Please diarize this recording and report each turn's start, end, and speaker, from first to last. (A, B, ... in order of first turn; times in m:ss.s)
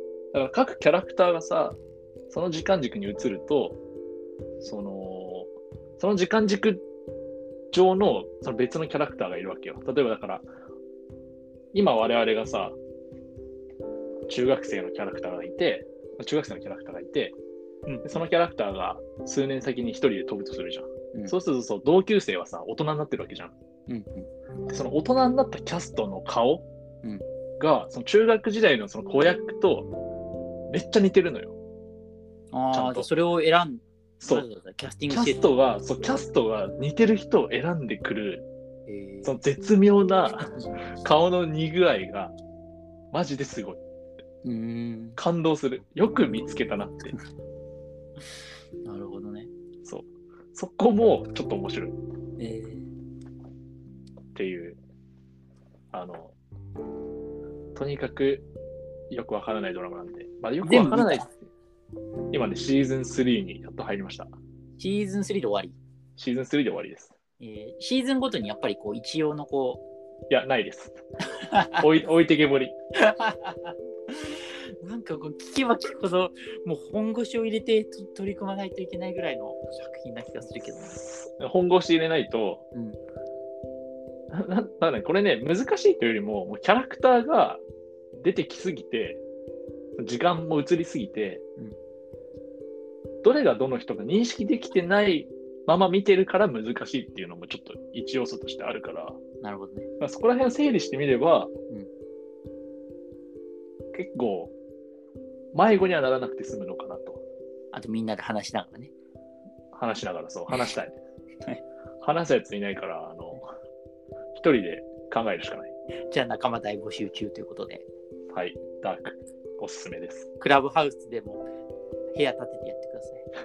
0:00.3-0:01.8 A
0:02.3-0:03.8 A
0:04.6-0:06.8 A
0:07.7-0:10.4 A
0:11.7-0:12.8 A
0:14.3-0:17.3 A
0:17.9-0:18.2 B
0:17.9-0:23.5 A
0:23.9-0:24.3 B
0:24.7-0:26.6 A
0:27.6-0:29.9 A
0:30.7-0:31.6 A
0:32.5-0:35.5 B
0:32.7-0:33.1 A
0:35.1-0:38.4 A
0:38.9-0:39.4 B
0:39.2-0:42.3 A
0:43.1-0:43.8 A
0:44.4-0:45.2 B
0:45.2-0:47.1 A
0:48.8-0:49.5 B
0:49.8-0:52.0 A
0:52.4-0:52.9 B
0:54.3-0:54.8 A
0:55.9-0:56.4 A
0:57.7-0:58.4 A
0:59.1-1:01.4 A
1:00.6-1:01.3 B
1:02.3-1:04.4 A
1:04.8-1:05.8 B
1:06.2-1:07.1 A
1:07.4-1:09.8 B
1:10.3-1:11.0 A
1:11.4-1:11.8 B
1:11.8-1:12.7 A
1:13.0-1:21.0 B
1:20.6-1:22.6 A
1:22.7-1:23.0 B
1:24.3-1:27.6 A
1:28.2-1:29.2 A
1:30.0-1:31.4 A
1:33.2-1:39.2 A
1:39.4-1:39.9 B
1:40.0-1:41.5 A
1:43.9-1:44.5 A
1:45.5-1:47.2 A
1:47.7-1:48.9 B
1:49.7-1:51.0 A
1:52.0-1:53.4 A
1:54.3-1:55.7 A
1:56.1-1:57.8 B
1:58.3-2:00.3 A
2:00.4-2:01.4 B
2:02.1-2:03.2 B